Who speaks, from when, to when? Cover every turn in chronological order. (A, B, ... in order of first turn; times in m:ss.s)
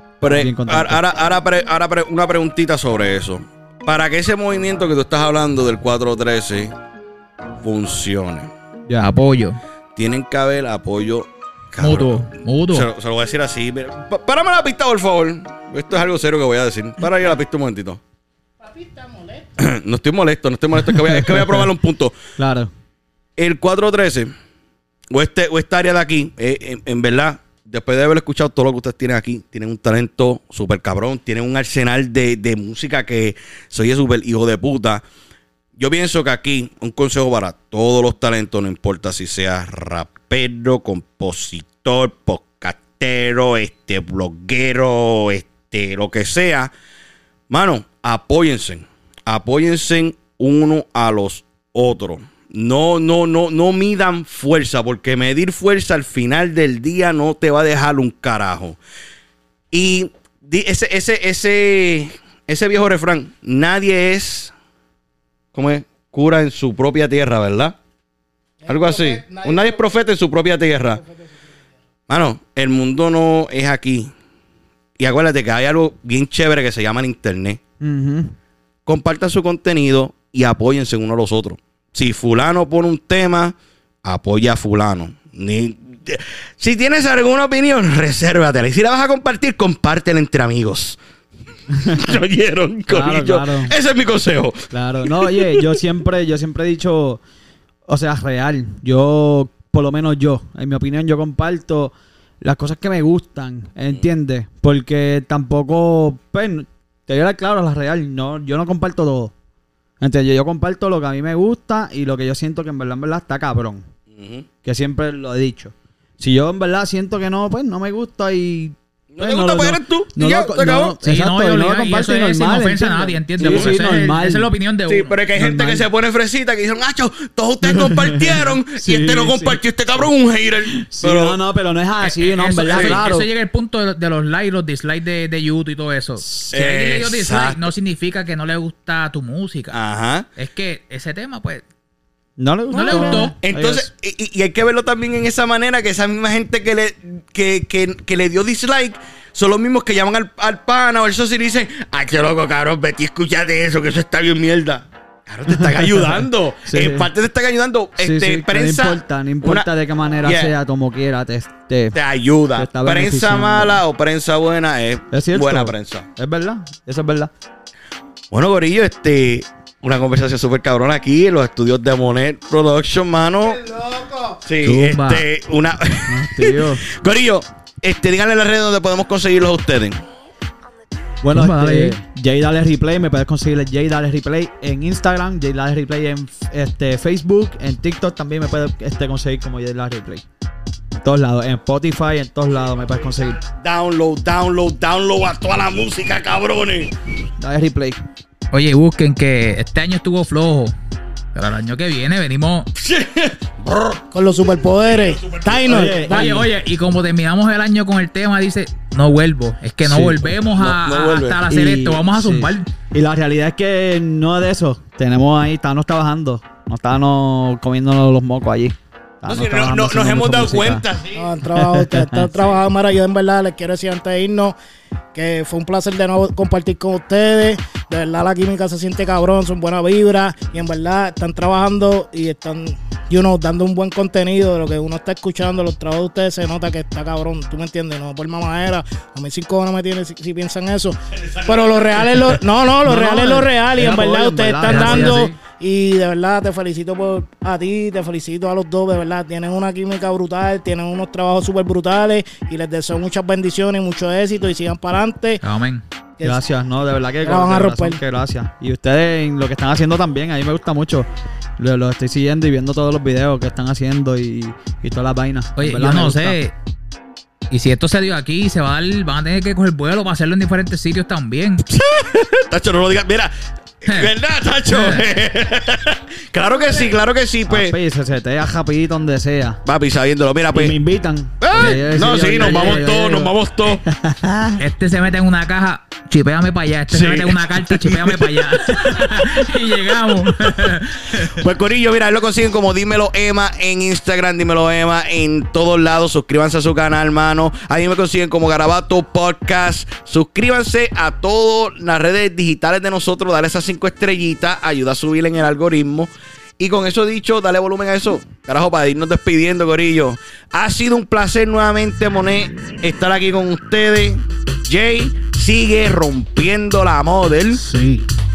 0:00.2-0:06.7 A
0:00.2-0:01.0 B
0:07.6-0:08.5 A
0:09.0-0:09.6 C
0:10.0-0:18.0 A
0:11.8-0:12.9 C
0:18.6-0:19.5 D
0:19.6-0:22.2 A
0:20.8-0:21.7 B
0:22.4-0:22.7 B
0:23.4-0:24.3 A
0:25.1-0:35.0 A
0:35.8-0:46.7 A
0:47.5-0:58.8 A
0:59.7-1:04.5 A
1:05.5-1:07.8 A
1:08.6-1:10.0 D
1:08.7-1:11.0 A
1:10.9-1:11.5 D
1:12.1-1:14.1 A
1:15.0-1:17.6 A
1:17.8-1:18.4 B
1:18.9-1:31.0 A
1:31.7-1:32.1 B
1:31.9-1:35.8 A
1:32.9-1:33.8 B
1:34.7-1:37.2 B
1:37.9-1:49.3 B
1:50.0-1:53.9 B
1:54.1-1:54.5 A
1:54.6-2:04.5 B
1:59.1-2:01.0 A
2:01.0-2:05.2 C
2:03.4-2:03.8 A
2:04.9-2:11.4 A
2:05.4-2:05.9 B
2:07.7-2:09.6 B
2:10.7-2:13.3 B
2:12.1-2:19.8 C
2:12.6-2:13.1 A
2:16.2-2:16.5 B
2:16.5-2:17.7 A
2:19.7-2:20.3 A
2:20.4-2:21.6 C
2:22.4-2:23.9 B
2:22.7-2:39.7 A
2:22.7-2:23.4 C
2:35.5-2:37.1 B
2:38.0-2:42.0 B
2:40.2-2:40.6 A
2:41.9-2:46.1 A
2:42.6-2:43.8 B
2:45.1-2:47.3 B
2:48.3-2:53.6 A
2:53.6-2:54.4 D
2:54.4-3:00.0 A
2:54.6-2:55.2 C
2:56.1-2:56.8 B
3:01.2-3:10.2 B
3:01.3-3:02.0 C
3:11.0-3:13.4 B
3:12.6-3:16.9 A
3:17.4-3:18.0 B
3:18.5-3:20.7 C
3:21.3-3:22.7 C
3:22.8-3:24.1 A
3:24.1-3:26.2 D
3:24.8-3:26.2 A
3:25.7-3:26.5 B
3:26.0-3:32.7 C
3:29.8-3:30.5 B
3:30.5-3:31.4 A
3:31.5-3:40.9 B
3:39.2-3:41.4 A
3:41.2-3:44.6 D
3:41.4-3:42.5 B
3:45.1-4:15.4 D
4:01.1-4:02.4 A
4:02.8-4:05.4 B
4:04.7-4:05.3 C
4:15.4-4:15.8 C
4:16.2-4:21.1 B
4:17.2-4:18.0 D
4:21.6-4:26.4 B
4:25.6-4:26.5 C
4:27.5-4:31.6 C
4:31.7-4:37.8 A
4:34.7-4:35.1 C
4:37.5-4:39.6 B
4:39.6-4:40.8 A
4:40.5-4:44.6 B
4:41.4-4:43.8 A
4:42.4-4:42.8 C
4:44.6-4:51.3 C
4:46.9-4:49.0 A
4:51.1-5:17.6 A
5:17.6-5:18.1 D